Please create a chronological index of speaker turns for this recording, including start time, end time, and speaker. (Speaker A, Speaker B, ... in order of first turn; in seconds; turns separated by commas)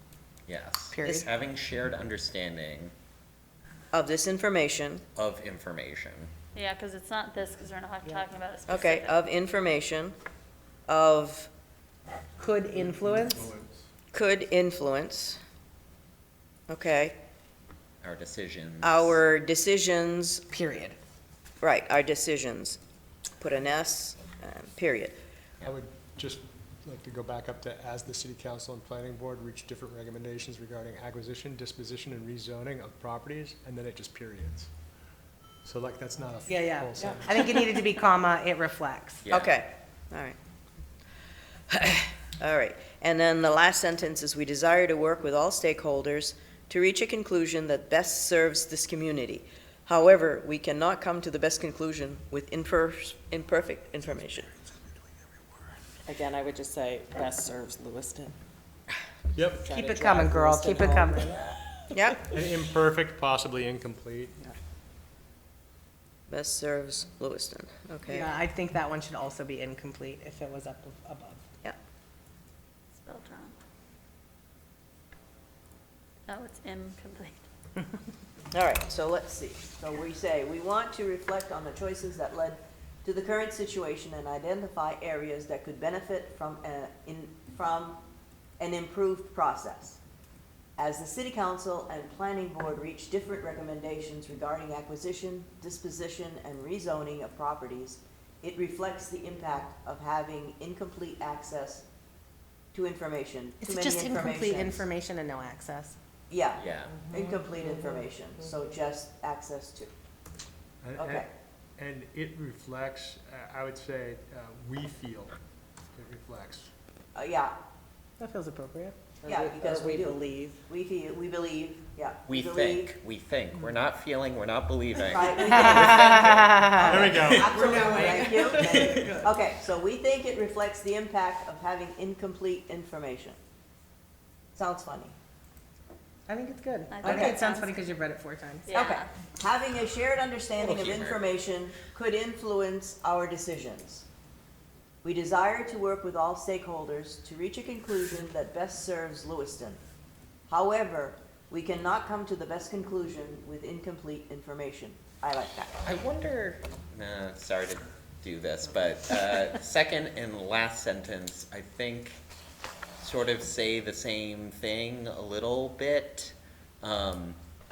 Speaker A: 0.5-2.9, Speaker B: 0.9-1.2, Speaker C: 3.9-5.0, Speaker A: 5.2-6.3, Speaker D: 6.5-9.1, Speaker C: 8.7-10.2, Speaker C: 10.9-11.5, Speaker B: 12.4-13.5, Speaker E: 12.7-13.8, Speaker C: 14.1-15.4, Speaker C: 16.7-17.1, Speaker A: 18.0-19.2, Speaker C: 18.8-20.4, Speaker B: 20.5-20.9, Speaker C: 21.6-22.8, Speaker C: 23.4-25.2, Speaker E: 25.6-34.7, Speaker E: 35.6-37.5, Speaker B: 36.4-39.2, Speaker A: 39.2-39.5, Speaker C: 39.3-40.4, Speaker C: 41.7-54.5, Speaker F: 56.1-58.4, Speaker E: 59.3-59.7, Speaker F: 59.6-61.3, Speaker B: 59.7-61.5, Speaker C: 61.9-62.2, Speaker E: 62.3-64.4, Speaker C: 66.3-68.3, Speaker B: 68.0-71.4, Speaker D: 73.0-73.5, Speaker D: 76.3-77.4, Speaker C: 78.5-88.0, Speaker C: 88.6-90.0, Speaker C: 90.8-101.8, Speaker C: 102.7-104.9, Speaker B: 103.6-106.0, Speaker C: 106.3-109.9, Speaker A: 106.6-107.0, Speaker F: 107.1-107.4, Speaker E: 110.8-111.2, Speaker C: 111.0-111.3, Speaker E: 111.8-115.3, Speaker E: 115.9-116.7, Speaker C: 117.1-117.5, Speaker B: 118.2-119.2, Speaker C: 119.2-122.9, Speaker F: 119.3-120.5, Speaker A: 122.3-126.7, Speaker C: 125.0-133.4, Speaker B: 125.7-127.0, Speaker E: 126.9-128.0, Speaker F: 127.8-128.3, Speaker E: 128.5-128.8, Speaker C: 134.5-135.1, Speaker B: 136.3-138.7, Speaker D: 136.9-137.7, Speaker C: 137.0-137.4, Speaker D: 138.7-139.1, Speaker C: 138.7-144.1, Speaker A: 140.6-141.2, Speaker C: 145.0-149.8, Speaker C: 150.5-155.7, Speaker A: 156.0-156.3, Speaker A: 156.9-162.2, Speaker A: 163.0-167.4